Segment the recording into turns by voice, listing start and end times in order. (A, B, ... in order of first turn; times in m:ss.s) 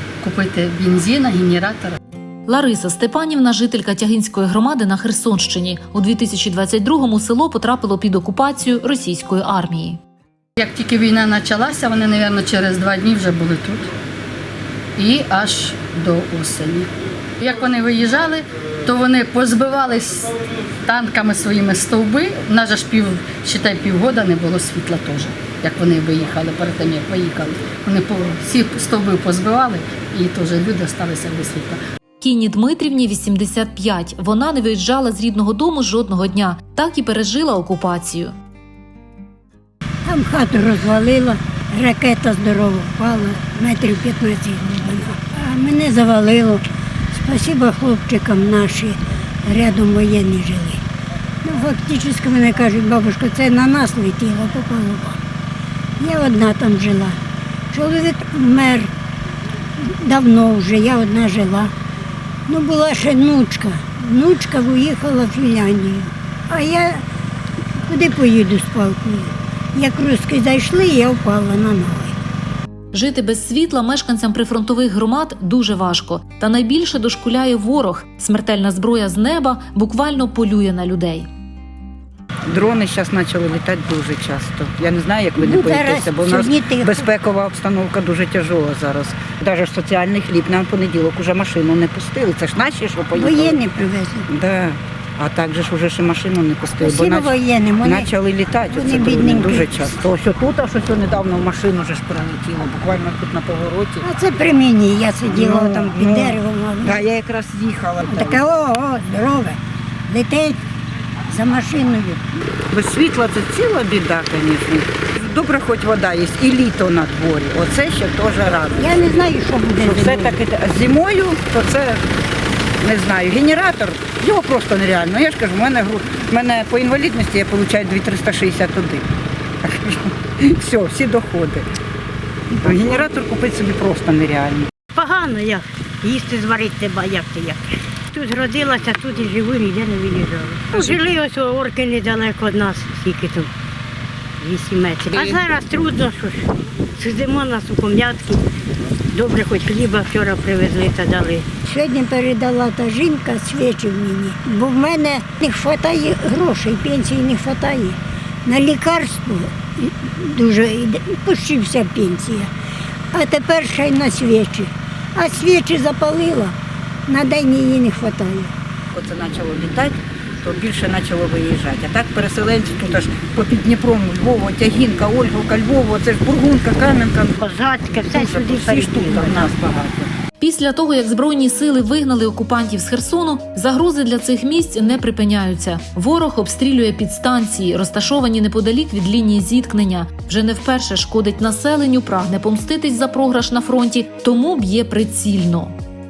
0:00.2-0:02.0 A
0:02.5-0:10.0 B
0:10.6-0:13.9 A
0:15.0-0:31.8 A
0:32.2-0:38.3 B
0:40.1-0:46.6 C
0:47.1-0:50.8 C
0:51.4-0:55.2 C
0:56.0-0:57.2 C
0:57.7-0:58.9 C
0:59.8-1:01.7 C
1:02.5-1:07.0 C
1:07.9-1:12.1 C
1:12.9-1:21.3 B
1:22.5-1:33.6 D
1:25.4-1:27.1 C
1:33.2-1:34.3 C
1:34.3-1:44.1 D
1:36.8-1:38.1 C
1:38.7-1:39.7 C
1:44.0-1:47.0 C
1:45.2-1:48.4 D
1:48.1-1:50.6 C
1:51.3-1:52.2 C
1:52.7-1:59.0 D
1:58.8-2:00.4 C
1:59.8-2:02.0 D
2:02.8-2:09.1 D
2:09.6-2:11.7 D
2:12.5-2:14.7 D
2:14.9-2:17.6 E
2:18.1-2:23.5 E
2:24.4-2:26.5 E
2:27.0-2:28.4 E
2:29.1-2:31.5 E
2:31.7-2:42.5 C
2:43.1-2:46.6 C
2:47.1-2:48.5 C
2:48.9-2:57.4 D
2:57.4-2:59.5 E
2:58.1-3:00.1 D
3:00.4-3:15.8 B